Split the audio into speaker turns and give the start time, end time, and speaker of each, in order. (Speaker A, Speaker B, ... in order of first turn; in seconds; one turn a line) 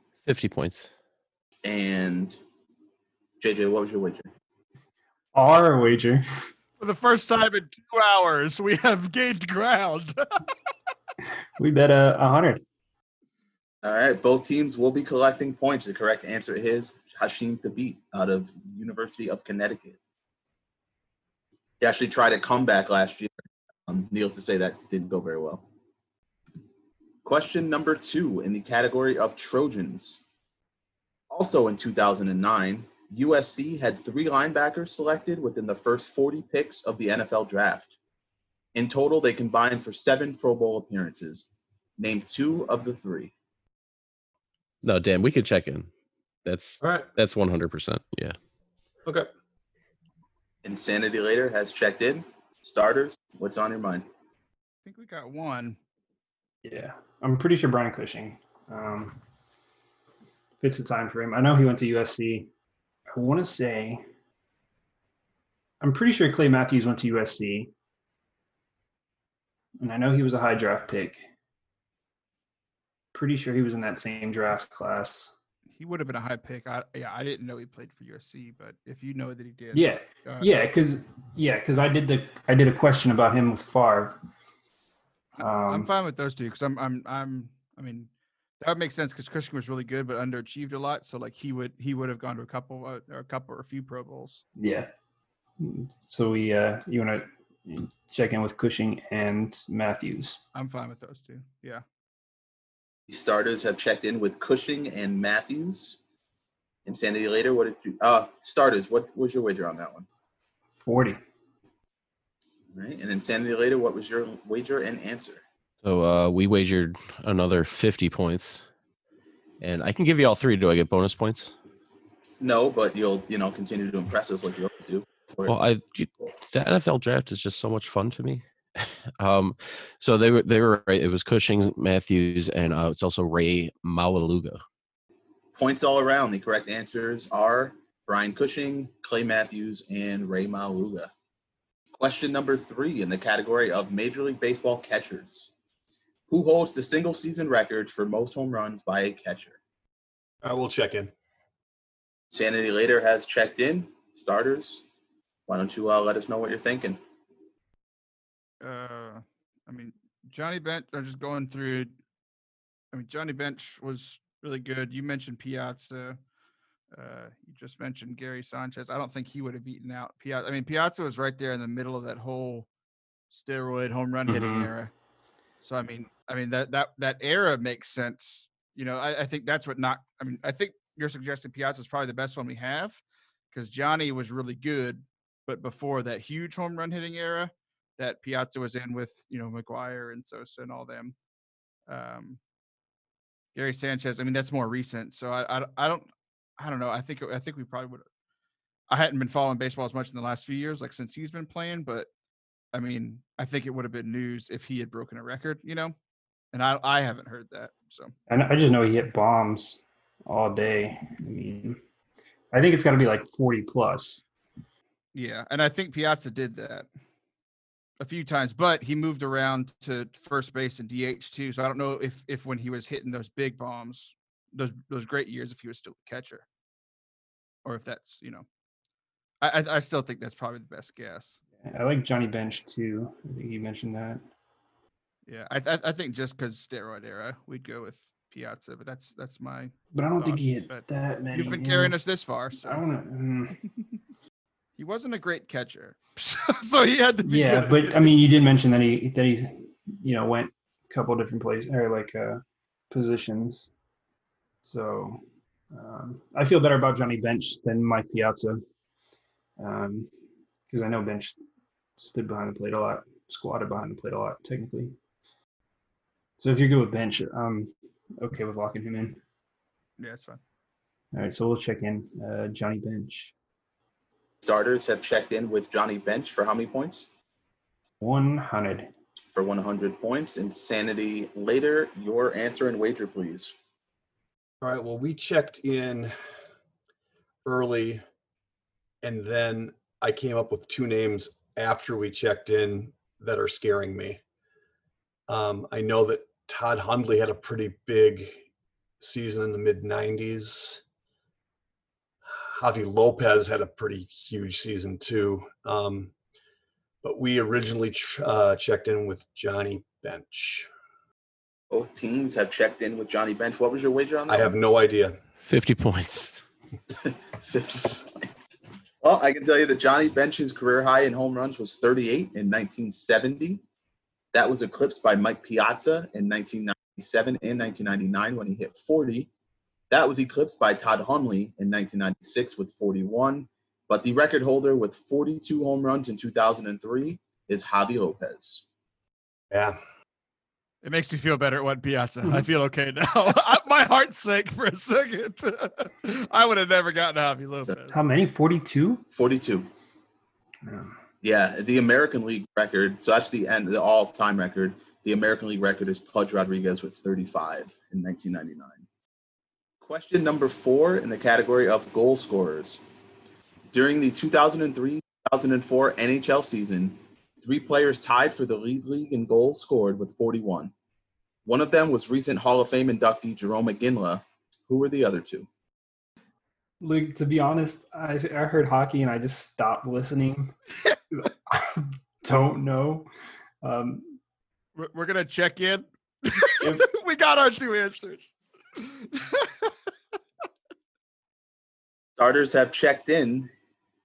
Speaker A: 0.2-0.9
Speaker B: 1.6-2.4
Speaker B: 3.4-4.3
Speaker C: 5.3-6.2
Speaker D: 6.8-10.2
Speaker C: 11.6-12.6
Speaker B: 13.8-20.0
Speaker B: 21.8-23.3
Speaker B: 23.9-25.6
Speaker B: 27.2-30.2
Speaker B: 31.3-37.9
Speaker B: 38.7-41.5
Speaker B: 42.0-43.3
Speaker A: 44.8-45.9
Speaker A: 46.4-48.3
Speaker E: 46.8-47.1
Speaker B: 50.6-54.0
Speaker D: 54.8-55.8
Speaker C: 56.6-59.2
Speaker C: 60.6-62.5
Speaker C: 63.1-64.0
Speaker C: 65.8-67.7
Speaker C: 69.8-71.2
Speaker C: 73.1-75.3
Speaker D: 75.7-80.5
Speaker C: 79.7-84.2
Speaker D: 85.4-94.4
Speaker C: 85.4-85.9
Speaker C: 94.6-94.9
Speaker C: 95.6-100.4
Speaker D: 100.5-101.8
Speaker B: 103.1-106.0
Speaker B: 106.8-110.0
Speaker C: 110.8-111.2
Speaker B: 112.7-115.4
Speaker A: 115.8-118.6
Speaker A: 119.6-121.5
Speaker B: 122.4-125.5
Speaker A: 125.5-134.6
Speaker B: 135.6-141.1
Speaker B: 141.9-145.5
Speaker B: 146.3-149.6
Speaker E: 150.4-151.1
Speaker B: 152.3-154.8
Speaker B: 155.5-157.0
Speaker D: 158.6-161.9
Speaker D: 162.9-166.2
Speaker D: 166.9-172.7
Speaker D: 173.3-174.9
Speaker C: 174.3-174.7
Speaker D: 175.6-183.0
Speaker D: 183.5-191.1
Speaker D: 191.9-192.4
Speaker D: 193.5-198.0
Speaker D: 198.9-202.1
Speaker D: 202.7-205.9
Speaker D: 206.5-208.1
Speaker C: 208.3-211.8
Speaker C: 212.5-214.2
Speaker D: 215.1-216.9
Speaker D: 218.0-226.4
Speaker D: 227.6-228.4
Speaker D: 229.4-231.4
Speaker C: 231.6-234.2
Speaker D: 235.3-242.8
Speaker C: 239.9-241.9
Speaker C: 242.6-243.6
Speaker D: 244.8-248.4
Speaker C: 247.2-253.7
Speaker C: 254.6-258.6
Speaker C: 259.6-260.1
Speaker C: 260.7-261.4
Speaker C: 262.0-264.9
Speaker C: 266.4-269.2
Speaker D: 270.0-270.4
Speaker C: 271.1-273.3
Speaker B: 274.4-277.1
Speaker C: 278.0-278.9
Speaker B: 279.3-283.5
Speaker E: 284.6-286.1
Speaker E: 287.4-288.0
Speaker E: 289.0-294.2
Speaker E: 295.3-298.4
Speaker E: 299.0-300.8
Speaker E: 302.3-306.1
Speaker E: 307.0-310.7
Speaker B: 311.7-314.5
Speaker E: 314.3-315.1
Speaker A: 315.4-316.4
Speaker B: 317.0-318.3
Speaker B: 319.0-323.6
Speaker B: 324.3-329.3
Speaker B: 329.9-338.6
Speaker E: 339.5-339.8
Speaker D: 340.8-347.9
Speaker C: 347.9-349.0
Speaker B: 349.1-349.7
Speaker C: 350.6-350.9
Speaker B: 351.2-358.8
Speaker B: 359.8-362.8
Speaker B: 363.7-370.7
Speaker B: 371.4-375.5
Speaker C: 376.8-380.5
Speaker C: 381.1-383.1
Speaker C: 383.6-384.2
Speaker D: 384.8-389.7
Speaker C: 386.6-386.9
Speaker B: 392.2-393.5